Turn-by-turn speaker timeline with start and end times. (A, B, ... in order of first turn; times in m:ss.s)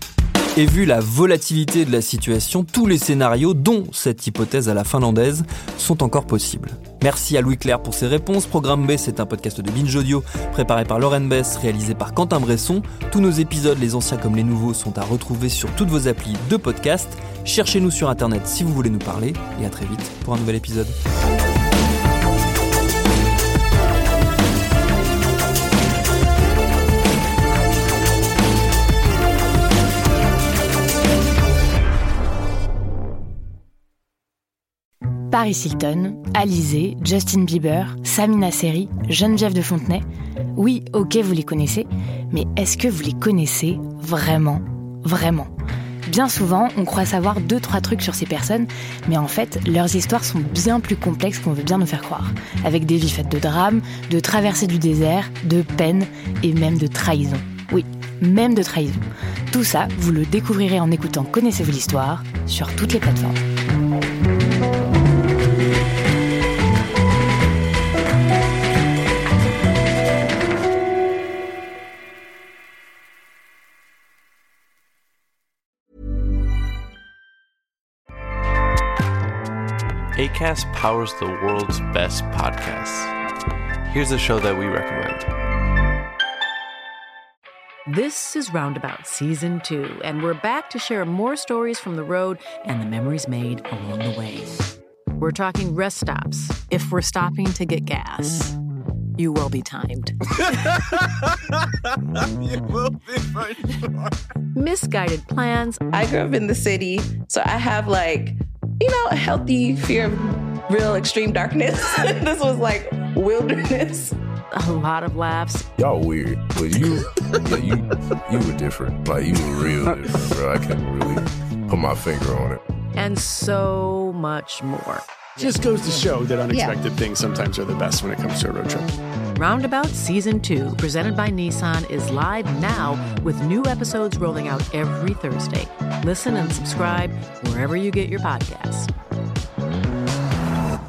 0:00.6-0:20.9 A
0:35.3-0:40.0 B
0:40.6-0:45.5 B
0:46.0-1:03.4 B
1:20.1-1:23.1 C
1:23.9-1:25.3 C
1:27.9-1:34.6 D
1:35.2-1:38.5 D
1:39.2-1:40.2 D
1:44.5-1:45.8 D
1:45.9-1:54.2 E
1:54.5-1:55.7 D
1:55.8-2:02.6 F
2:02.9-2:05.0 D
2:05.4-2:08.9 G
2:06.5-2:06.8 E
2:09.4-2:18.9 D